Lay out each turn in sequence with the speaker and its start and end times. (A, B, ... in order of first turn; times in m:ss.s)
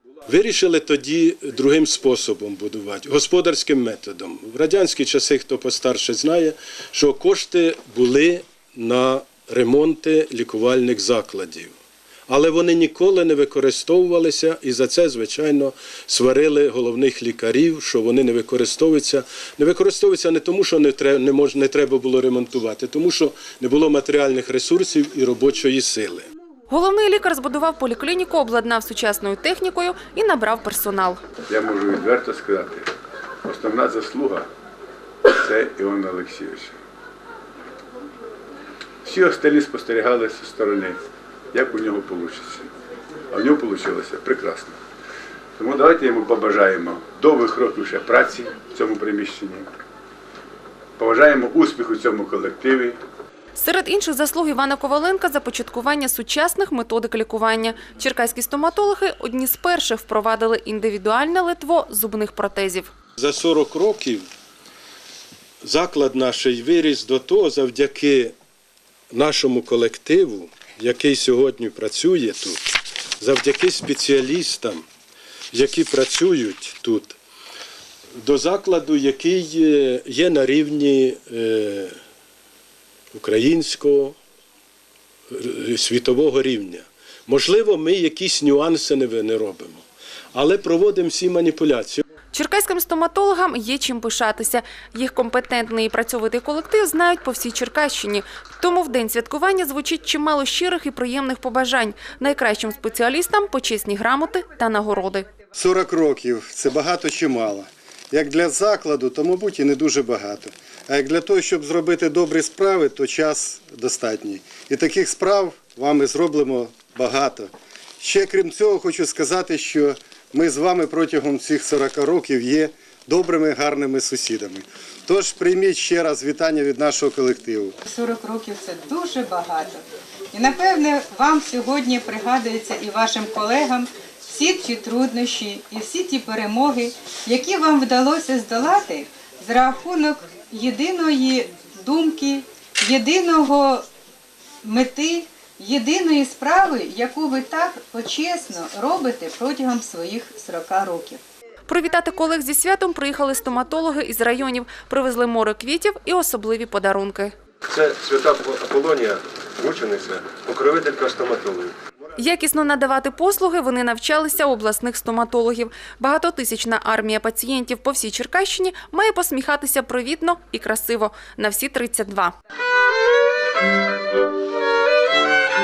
0:00.3-0:11.7 A
0:12.3-0:26.3 A
0:26.7-0:31.2 B
0:31.5-0:32.9 C
0:33.4-0:34.5 C
0:35.2-0:36.8 C
0:39.0-0:41.0 C
0:41.5-0:42.7 C
0:43.3-0:44.8 C
0:45.6-0:49.7 C
0:51.0-0:53.0 C
0:53.5-1:02.9 B
1:03.2-1:04.3 A
1:05.6-1:08.3 A
1:09.1-1:12.7 A
1:13.2-1:14.8 A
1:15.5-1:17.2 A
1:18.2-1:21.9 A
1:23.1-1:24.2 A
1:25.3-1:32.0 A
1:32.3-1:45.2 B
1:45.5-2:07.8 D
2:07.8-2:23.8 E
2:24.6-2:31.2 E
2:31.7-2:37.3 B
2:37.7-2:41.7 F
2:42.2-2:52.3 B